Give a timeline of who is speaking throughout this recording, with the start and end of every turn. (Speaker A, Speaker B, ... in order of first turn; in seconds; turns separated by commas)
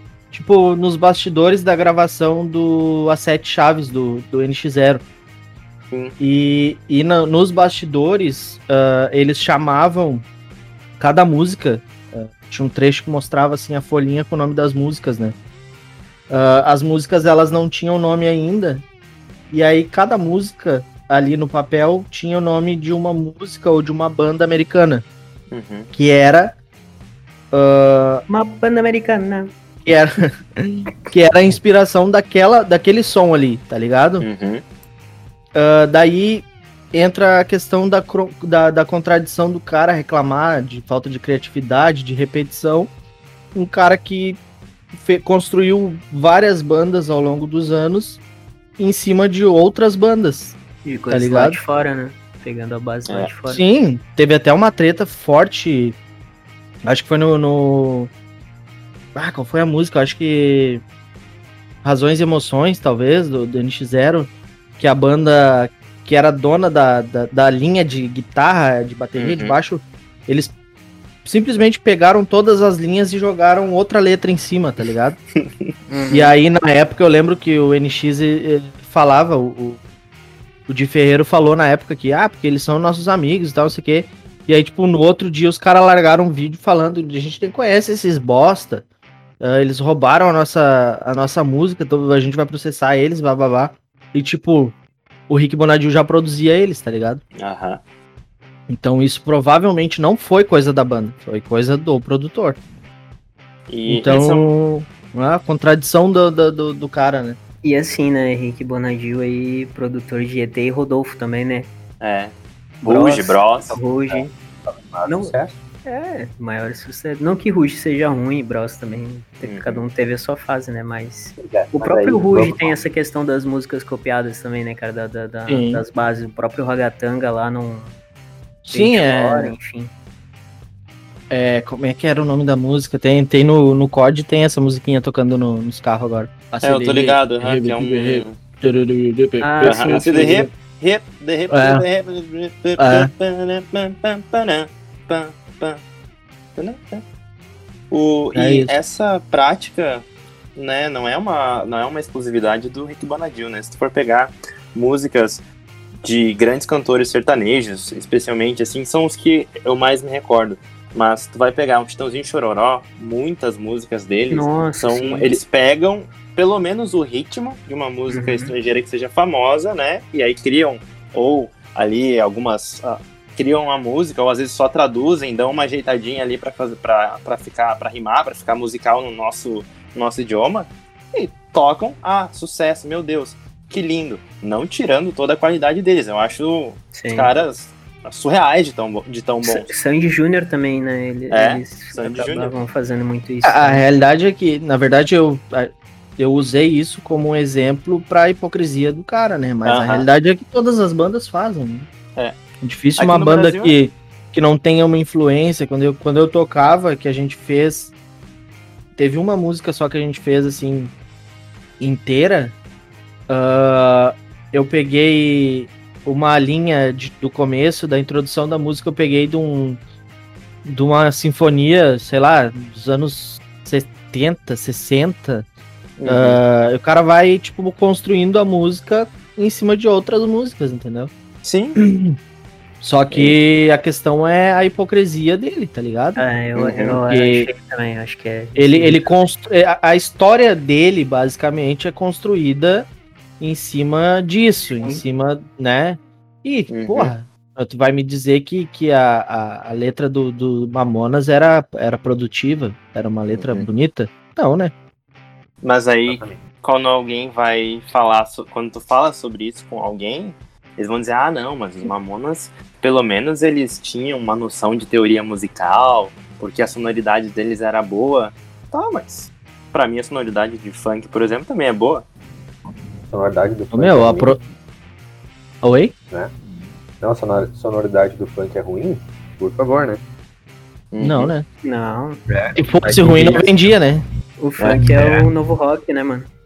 Speaker A: 0.3-5.0, Speaker B: 5.9-6.2, Speaker A: 6.2-10.2, Speaker A: 11.0-15.3, Speaker A: 16.3-18.8, Speaker A: 19.5-25.0, Speaker B: 25.5-25.9, Speaker A: 25.9-26.6, Speaker A: 27.5-28.2, Speaker C: 28.3-29.5, Speaker A: 29.8-34.3, Speaker B: 34.2-34.6, Speaker A: 35.5-42.9, Speaker A: 43.5-44.4, Speaker A: 44.9-48.2, Speaker A: 48.8-50.6, Speaker C: 50.8-53.6, Speaker A: 51.1-51.6, Speaker A: 53.5-56.0, Speaker A: 56.8-58.1, Speaker A: 59.1-60.8, Speaker A: 61.8-70.5, Speaker B: 69.2-69.6, Speaker A: 71.2-75.2, Speaker C: 75.9-76.3, Speaker A: 76.1-79.8, Speaker A: 80.7-88.8, Speaker A: 89.4-94.7, Speaker A: 95.3-97.2, Speaker B: 97.4-97.8, Speaker A: 98.7-102.6, Speaker B: 103.7-104.5, Speaker A: 103.9-107.4, Speaker C: 107.6-111.7, Speaker B: 112.0-113.8, Speaker C: 112.8-114.3, Speaker D: 113.7-115.6, Speaker C: 115.0-127.9, Speaker B: 119.4-119.8, Speaker D: 121.4-122.8, Speaker A: 125.5-125.8, Speaker A: 128.6-129.6, Speaker C: 128.7-129.9, Speaker A: 131.3-140.5, Speaker B: 136.6-138.4, Speaker C: 139.4-140.2, Speaker B: 139.6-145.8, Speaker A: 141.5-141.8, Speaker A: 142.8-143.1, Speaker B: 146.6-147.0, Speaker B: 147.9-150.0, Speaker A: 148.3-148.7, Speaker B: 150.6-155.4, Speaker B: 156.0-189.7, Speaker C: 164.3-165.4, Speaker C: 168.1-168.5, Speaker C: 186.9-187.3, Speaker C: 189.4-193.8, Speaker B: 191.3-192.6, Speaker A: 193.4-201.9, Speaker B: 199.6-200.1, Speaker A: 202.6-207.9, Speaker B: 203.0-203.8, Speaker A: 208.9-210.9, Speaker A: 211.8-212.5, Speaker A: 213.3-219.8, Speaker A: 220.7-225.4, Speaker B: 226.0-226.4, Speaker A: 226.1-231.1, Speaker B: 231.4-231.8, Speaker A: 231.8-232.1, Speaker A: 232.8-236.2, Speaker B: 233.1-233.4, Speaker C: 236.2-239.0, Speaker B: 236.6-237.0, Speaker A: 236.9-237.5, Speaker A: 238.6-242.9, Speaker A: 243.4-254.7, Speaker B: 246.7-247.1, Speaker B: 253.3-253.7, Speaker B: 255.6-272.1, Speaker D: 256.1-256.4, Speaker D: 273.0-274.4, Speaker A: 273.7-274.4, Speaker A: 275.6-275.9, Speaker D: 277.0-280.0, Speaker B: 280.9-281.3, Speaker A: 281.0-281.4, Speaker C: 281.6-282.2, Speaker D: 282.3-283.6, Speaker A: 282.6-284.0, Speaker C: 284.4-286.3, Speaker B: 284.6-285.3